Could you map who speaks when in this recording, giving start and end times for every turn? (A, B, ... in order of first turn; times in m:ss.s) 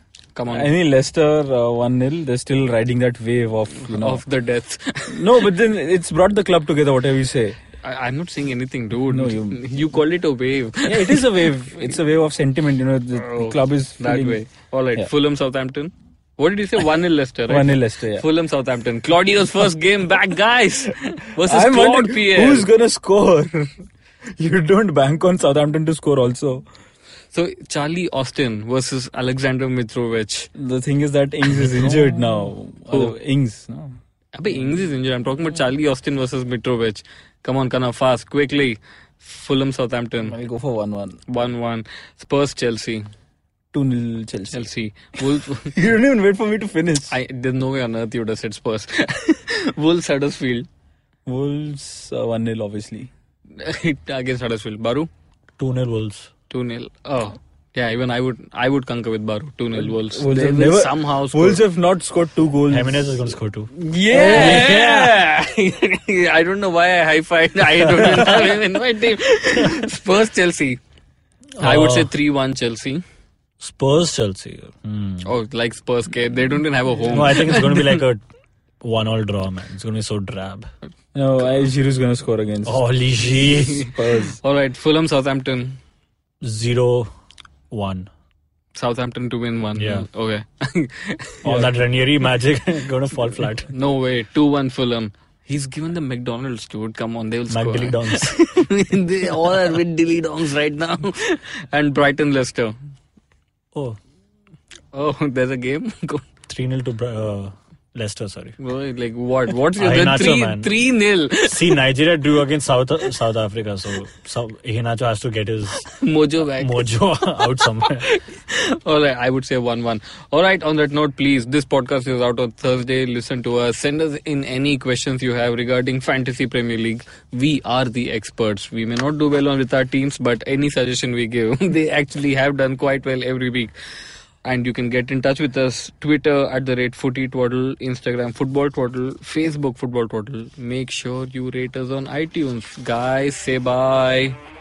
0:00.4-0:00.7 A
0:00.5-0:04.2 B
0:03.8-0:05.4 A
0:05.1-0:07.6 B
0:07.8-0:11.4 A
0:09.1-0:09.6 B
0:10.9-0:14.4 B
0:13.2-0:22.7 A
0:17.5-0:18.2 B
0:21.4-0:23.7 B
0:24.4-0:26.7 B
0:27.3-0:30.5 A
0:30.6-0:33.9 B
0:34.4-0:40.4 A
0:40.3-0:41.2 B
0:41.3-0:43.0 A
0:43.7-0:44.7 B
0:44.5-0:45.7 A
0:45.2-0:47.2 B
0:47.1-0:50.7 A
0:51.3-0:53.1 B
0:53.6-0:55.1 A
0:55.6-0:56.3 C
0:56.5-1:01.6 A
0:59.8-1:03.4 B
1:02.7-1:05.0 C
1:03.9-1:10.8 A
1:03.9-1:05.1 B
1:11.6-1:12.1 C
1:11.6-1:13.0 A
1:13.6-1:15.3 C
1:15.2-1:18.0 A
1:17.1-1:18.2 C
1:18.8-1:20.7 C
1:21.2-1:22.8 B
1:22.7-1:23.9 C
1:23.4-1:25.8 A
1:23.8-1:24.4 B
1:26.4-1:27.1 C
1:27.7-1:28.1 C
1:28.8-1:31.5 A
1:29.8-1:30.1 C
1:31.4-1:33.7 C
1:31.4-1:31.7 B
1:33.7-1:42.8 A
1:37.5-1:38.4 C
1:44.9-1:46.3 A
1:46.5-1:48.6 C
1:48.6-1:51.8 A
1:49.8-1:50.7 C
1:51.4-1:55.9 C
1:55.9-2:13.7 A
1:56.6-1:58.1 C
2:14.4-2:24.4 A